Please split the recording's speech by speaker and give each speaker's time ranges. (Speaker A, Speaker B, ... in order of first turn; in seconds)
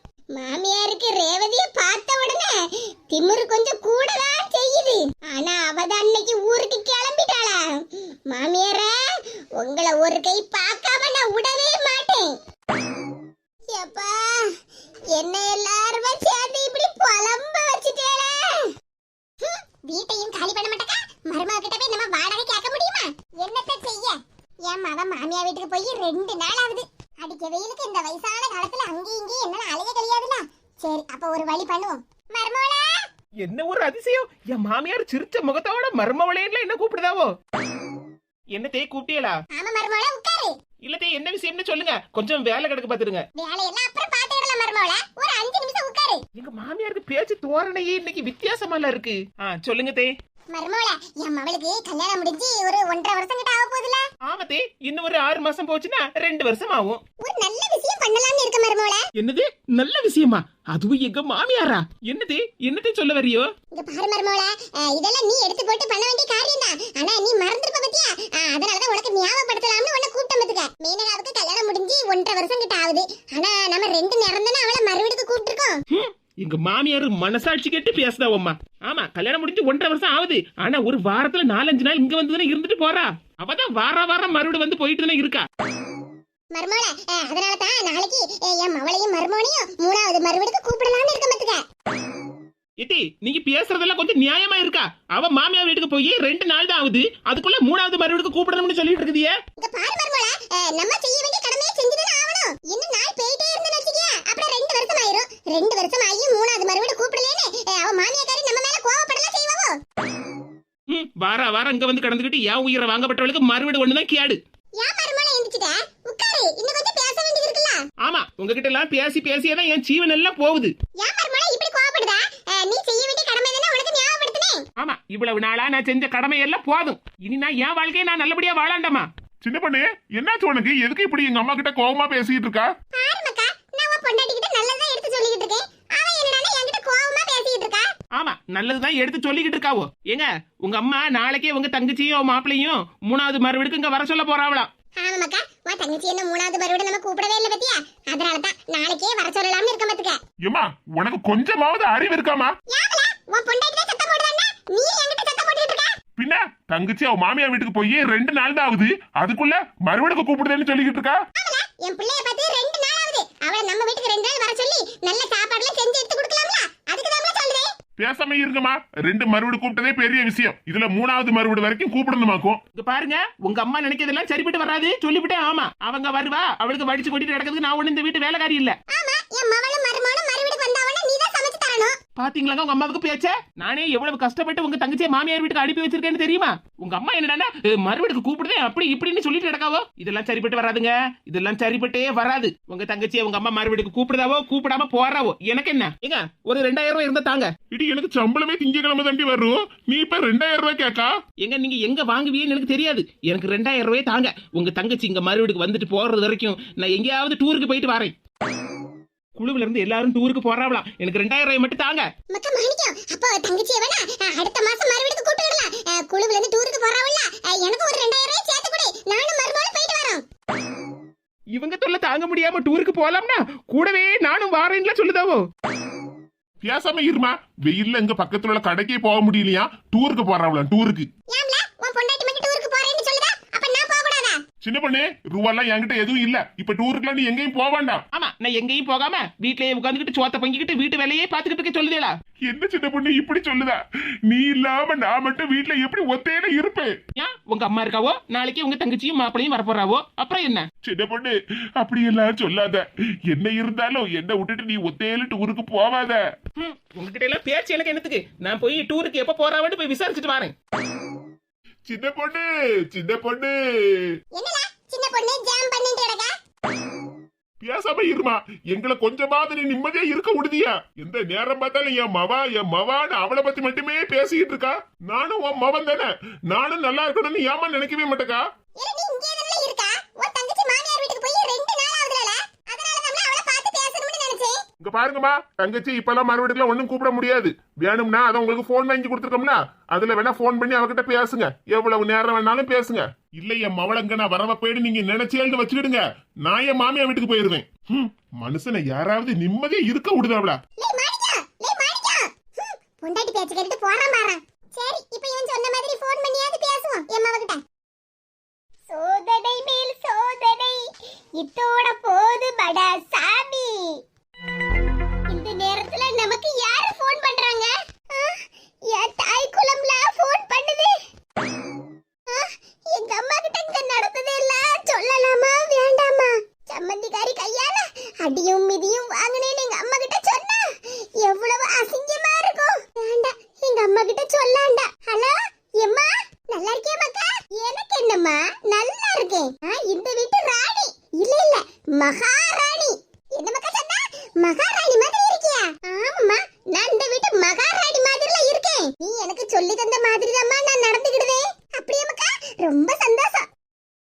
Speaker A: 0.3-12.3, 13.7-14.5, 15.1-18.7, 19.4-32.9, 39.5-40.5, 43.4-46.2, 50.5-54.0, 57.2-59.0, 63.7-75.8, 86.5-91.6, 99.6-109.8, 114.8-117.8, 121.0-124.6, 133.0-137.9, 145.0-150.2, 152.7-155.9, 161.4-167.7, 178.9-181.9, 212.3-220.2, 231.3-234.4, 264.4-266.3, 278.8-284.6, 300.8-307.6, 308.9-310.8, 311.4-313.9, 315.3-320.9, 322.3-353.5
Speaker B: 33.4-37.3, 38.5-39.4, 40.8-43.2, 46.4-50.1, 54.2-57.0, 59.2-63.5, 75.9-85.4, 92.8-99.3, 110.9-114.4, 118.0-120.7, 124.8-129.1, 138.1-144.7, 172.8-178.8, 182.2-197.5, 201.4-208.1, 209.3-212.1, 221.5-225.4, 238.1-242.1, 247.2-250.7, 256.6-260.5
Speaker C: 129.4-132.7, 150.4-152.5, 156.2-161.2, 168.0-172.6, 197.7-201.1, 226.6-231.1, 234.6-238.0, 242.5-246.9, 250.8-256.2, 261.9-264.1, 267.6-278.4, 284.8-300.6